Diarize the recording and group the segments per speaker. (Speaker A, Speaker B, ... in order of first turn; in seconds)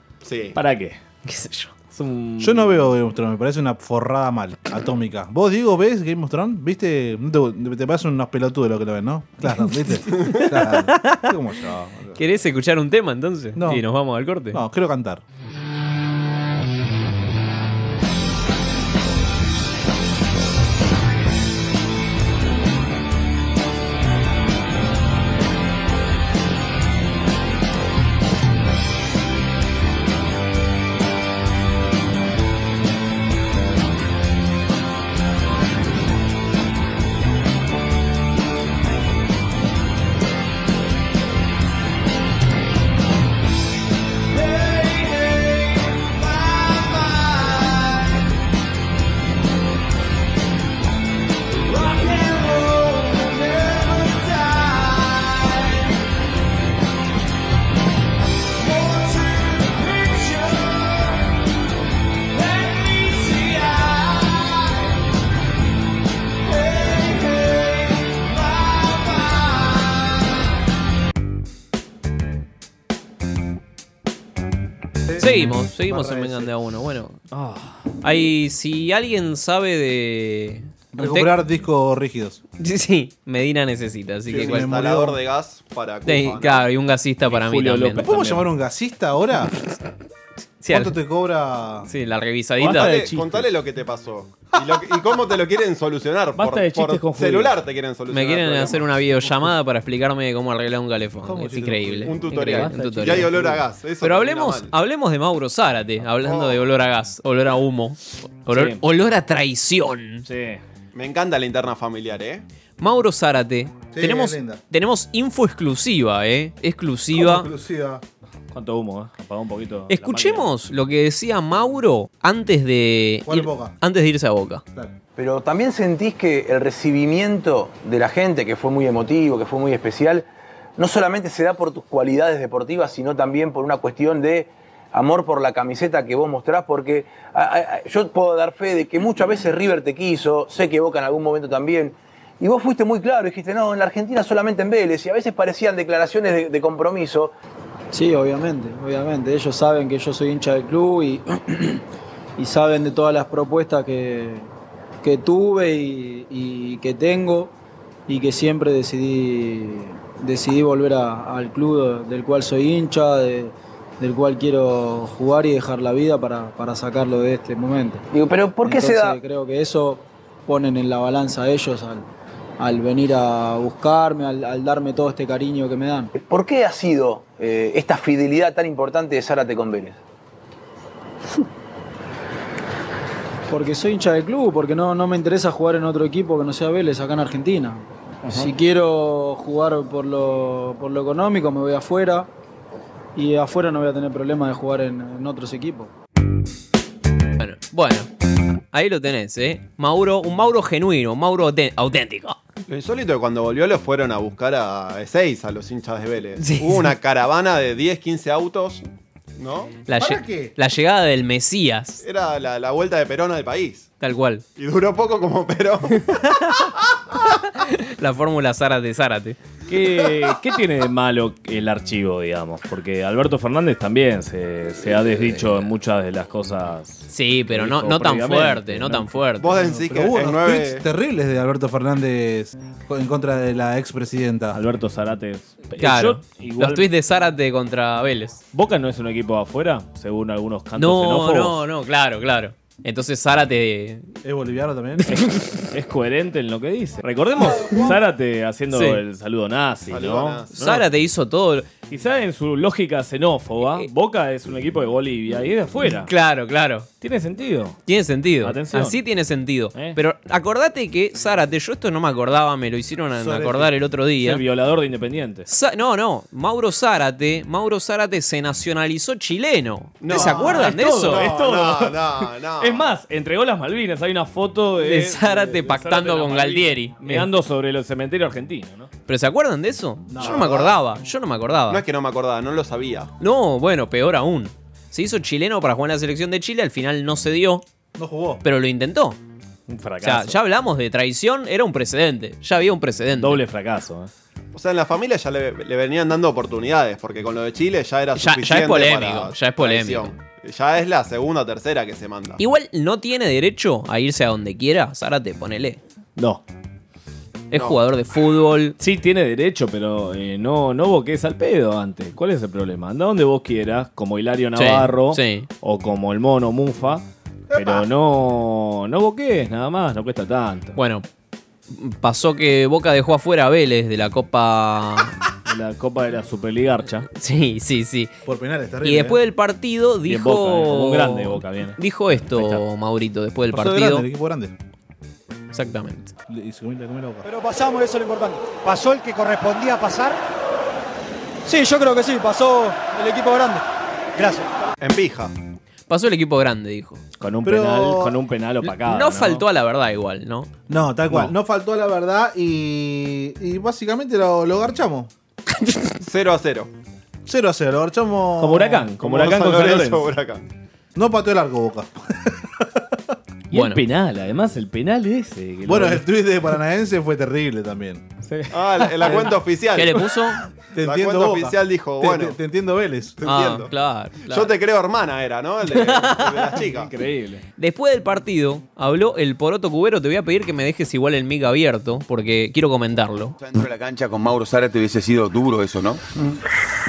Speaker A: 0.2-0.6, 10.1-10.4, 84.3-86.7, 92.7-98.9, 102.0-104.7, 106.2-106.7, 110.9-112.4, 202.7-208.8, 209.4-209.8, 212.0-213.9, 214.6-217.0, 229.4-230.9, 249.9-250.5, 270.0-272.9, 280.2-280.8, 281.7-283.1, 294.5-302.4, 307.5-307.8, 344.8-345.3, 356.0-356.7, 359.0-360.5, 368.5-370.0, 370.8-372.4, 373.2-373.7, 374.2-376.9
Speaker B: 0.5-1.0, 1.9-2.9, 77.3-77.9, 87.2-88.5, 92.6-93.5, 96.4-97.6, 102.2-103.6, 108.5-108.8, 110.2-110.6, 118.5-120.5, 219.7-229.1, 234.5-236.9, 238.5-241.6, 245.1-250.9, 251.9-256.1, 257.0-257.8, 258.4-259.0, 264.2-265.5, 270.1-278.9, 289.7-290.4, 293.1-294.1, 306.2-306.4, 308.8-320.8, 325.5-327.1, 330.1-332.6, 347.2-349.4, 358.4-360.1, 363.5-366.1, 368.2-369.4, 376.6-377.4
Speaker C: 1.2-1.7, 10.7-11.3, 12.2-14.6, 75.2-77.2, 78.0-81.4, 82.6-84.7, 86.0-88.1, 90.6-91.0, 91.9-92.9, 98.1-103.3, 104.0-110.2, 112.8-117.5, 119.9-124.6, 197.4-198.1, 198.7-202.4, 206.4-206.9, 209.9-212.0, 214.0-214.4, 216.1-216.6, 217.5-219.4, 227.1-229.6, 235.8-238.4, 240.8-244.1, 248.7-249.0, 250.5-251.7, 256.1-256.9, 257.9-264.4, 265.5-271.2, 274.8-277.3, 279.1-281.8, 283.2-287.6, 288.4-289.2, 290.0-293.4, 298.1-300.1, 302.4-305.8, 307.5-308.8, 314.6-315.5, 320.8-321.0, 321.7-325.1, 327.1-328.1, 328.8-334.1, 335.5-336.1, 345.9-347.0, 348.6-350.5, 363.5-363.8, 369.8-370.4, 373.2-374.5, 375.7-376.6, 377.6-383.3
Speaker D: 2.4-12.2, 13.6-13.8, 14.5-15.2, 75.0-76.5, 80.9-82.4, 84.3-85.2, 88.0-89.5, 90.7-91.9, 94.6-94.8, 101.2-102.2, 113.9-114.6, 117.1-118.0, 123.2-123.7, 209.9-210.5, 229.6-234.6, 244.2-245.1, 263.1-263.7, 270.1-270.6, 280.1-280.7, 287.9-288.4, 317.5-317.9, 328.2-329.2, 333.5-334.5, 336.3-337.2, 347.4-348.1, 350.7-355.1, 357.2-358.9, 360.9-363.0, 365.6-368.1, 370.7-373.2
Speaker E: 125.2-130.2, 130.8-147.3, 168.1-169.2, 176.1-180.0
Speaker F: 147.9-151.8, 152.4-154.5, 155.0-157.5, 158.1-168.0, 168.6-172.1, 172.6-176.1, 183.5-192.3, 193.1-195.9
Speaker G: 337.2-340.2, 341.4-344.7
Speaker H: 383.4-386.0